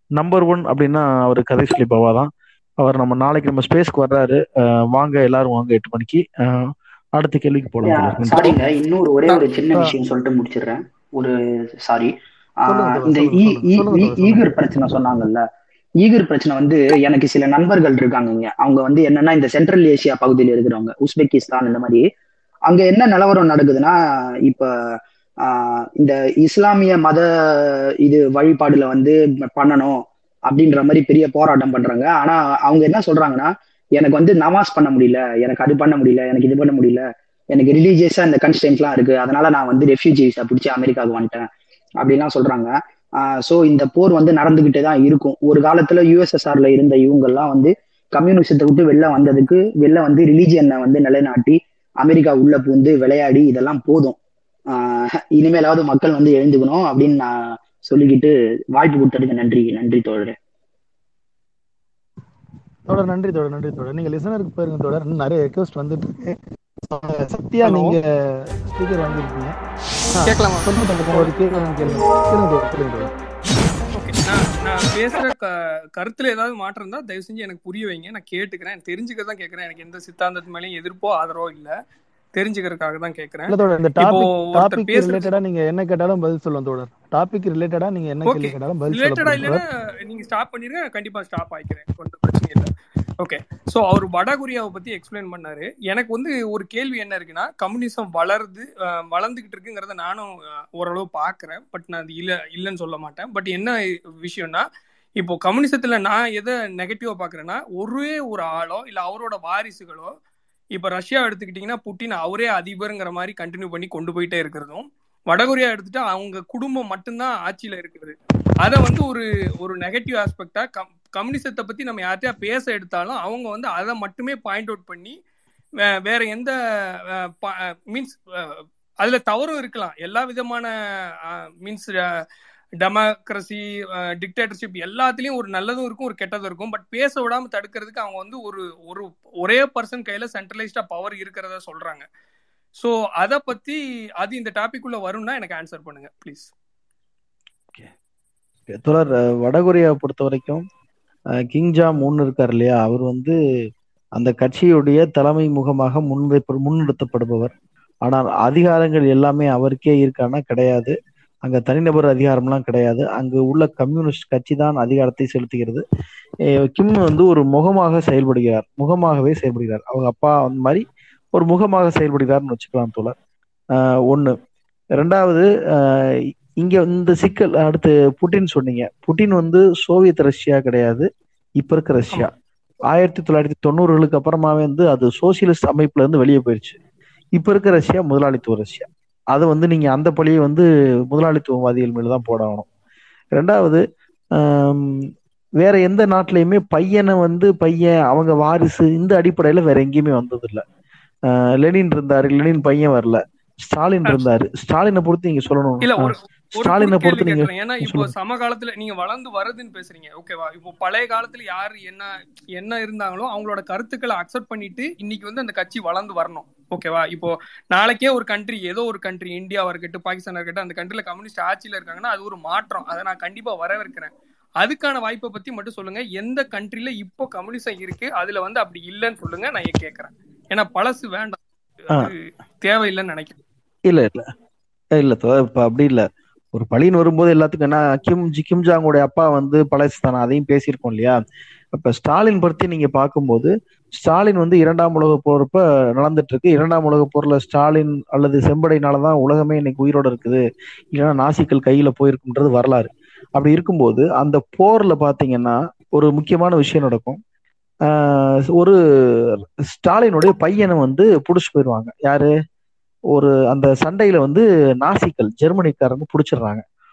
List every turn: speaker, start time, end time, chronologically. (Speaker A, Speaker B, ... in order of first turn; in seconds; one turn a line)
Speaker A: 0.2-8.6
Speaker B: 7.8-12.1
Speaker B: 12.7-15.4
Speaker C: 12.7-14.5
Speaker B: 16.0-22.0
Speaker B: 22.7-24.7
Speaker B: 25.4-41.5
Speaker B: 42.0-54.2
Speaker B: 54.7-60.4
Speaker C: 62.9-69.5
Speaker D: 67.6-68.0
Speaker C: 70.1-73.1
Speaker D: 70.2-72.2
Speaker D: 73.9-81.7
Speaker D: 82.3-85.3
Speaker C: 83.5-89.6
Speaker D: 88.2-104.6
Speaker D: 105.2-110.1
Speaker D: 110.8-125.2
Speaker D: 125.9-126.5
Speaker D: 127.1-130.7
Speaker D: 131.2-132.2
Speaker D: 132.8-142.1
Speaker D: 142.8-146.5
Speaker A: 148.7-150.6
Speaker A: 151.5-153.4
Speaker A: 154.2-157.5
Speaker A: 158.0-165.8
Speaker A: 166.6-173.1
Speaker A: 173.7-174.4
Speaker A: 175.0-181.1
Speaker A: 181.6-182.3
Speaker A: 182.9-186.8
Speaker A: 187.4-192.7
Speaker A: 193.3-193.8
Speaker A: 194.3-200.6
Speaker A: 201.3-208.1
Speaker D: 204.0-204.3
Speaker D: 205.8-231.4
Speaker D: 231.9-233.4
Speaker A: 233.9-234.3
Speaker A: 235.0-241.2
Speaker A: 241.7-250.4
Speaker A: 250.9-257.2
Speaker A: 257.9-258.8
Speaker A: 259.3-262.3
Speaker A: 263.1-266.6